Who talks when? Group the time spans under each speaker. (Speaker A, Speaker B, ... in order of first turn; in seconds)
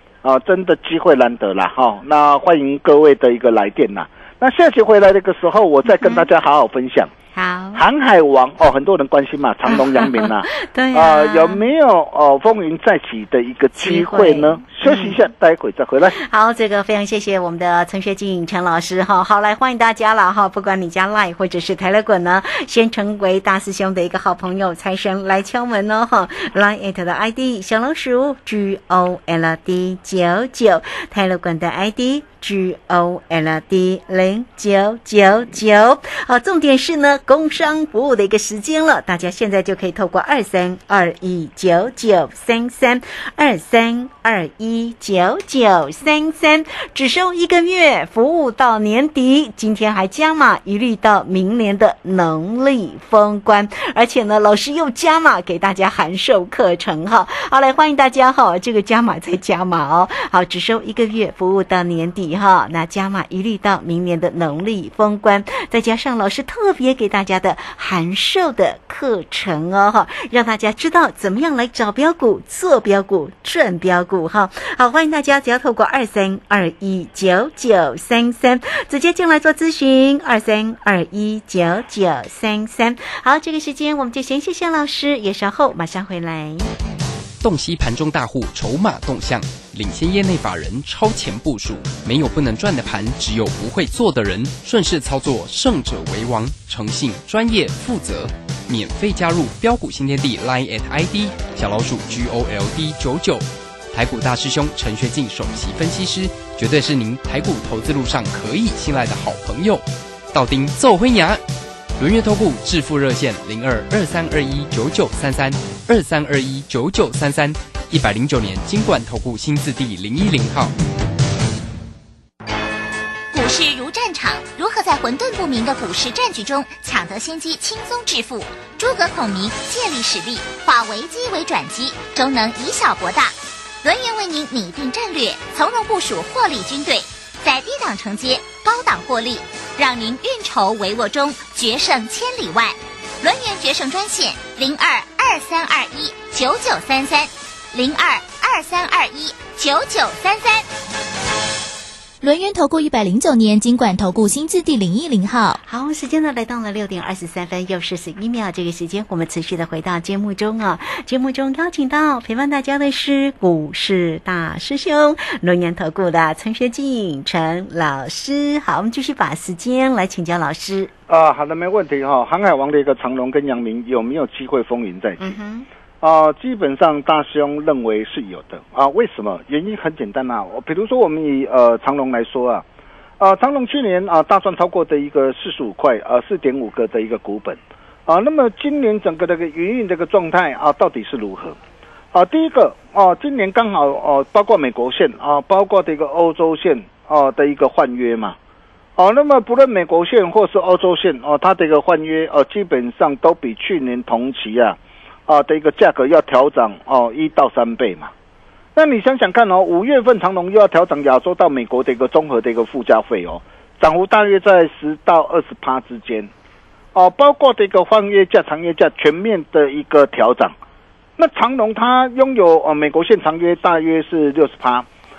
Speaker A: 0.2-7.1, 7.7-16.2, 171.1-175.3, 176.0-182.6, 183.2-191.6, 192.1-198.4, 199.0-208.1, 208.8-216.3, 216.9-220.6, 221.2-224.9
Speaker B: 5.9-6.3, 7.3-7.8, 9.7-11.7, 13.8-15.2, 16.1-86.7, 155.6-170.9, 175.2-175.7
Speaker C: 87.4-111.4, 112.0-120.7
Speaker D: 123.3-150.7
Speaker E: 152.2-155.6